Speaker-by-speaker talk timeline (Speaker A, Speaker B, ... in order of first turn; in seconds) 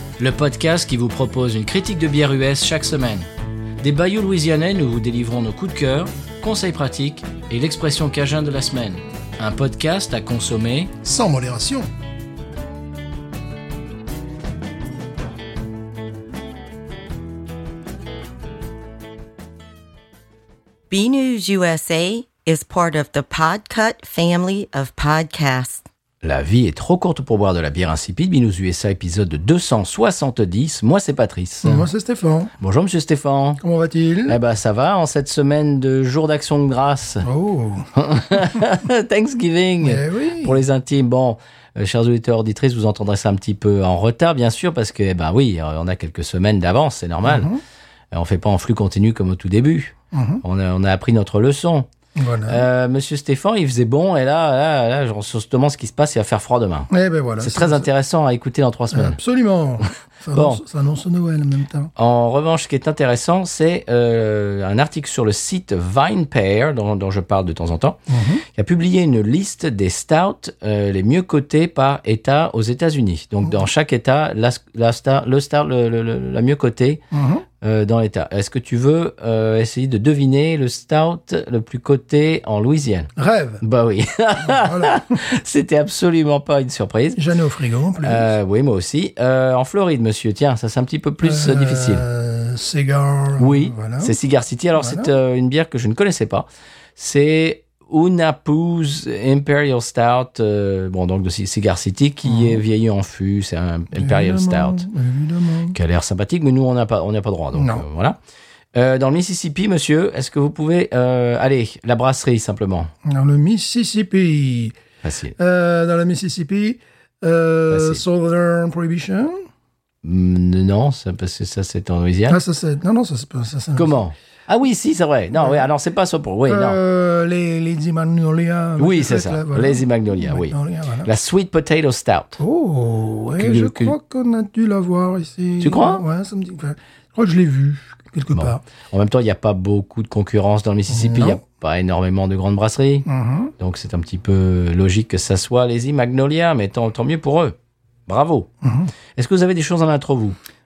Speaker A: 0.2-3.3, 3.8-10.9, 26.2-31.9, 32.6-33.6, 34.3-37.3, 37.9-47.5, 48.1-51.9, 52.5-59.2, 60.3-60.6, 62.0-68.0, 68.5-77.0, 77.6-83.1, 83.6-87.2, 88.0-92.0, 93.4-104.8, 105.7-108.2, 108.7-112.9, 115.0-115.3, 117.7-118.0, 120.0-122.4, 123.7-126.8, 128.8-132.4, 133.4-133.9, 135.6-136.0, 138.3-143.1, 143.6-147.5, 148.1-148.5, 149.2-150.4
Speaker B: 11.0-11.9, 31.6-32.5, 33.6-34.4, 37.2-37.9, 39.8-40.6, 47.2-47.6, 50.1-50.4, 52.1-52.6, 56.9-57.9, 58.9-61.9, 68.1-68.4, 77.1-77.4, 83.2-83.6, 84.4-85.3, 87.2-88.3, 91.2-94.2, 94.8-95.1, 102.2-102.6, 103.9-105.8, 107.5-107.8, 113.0-114.7, 115.4-119.5, 122.3-123.9, 125.3-125.7, 126.5-131.1, 132.4-138.6, 140.9-141.4, 143.1-143.5, 148.6-148.9
Speaker C: 20.9-25.8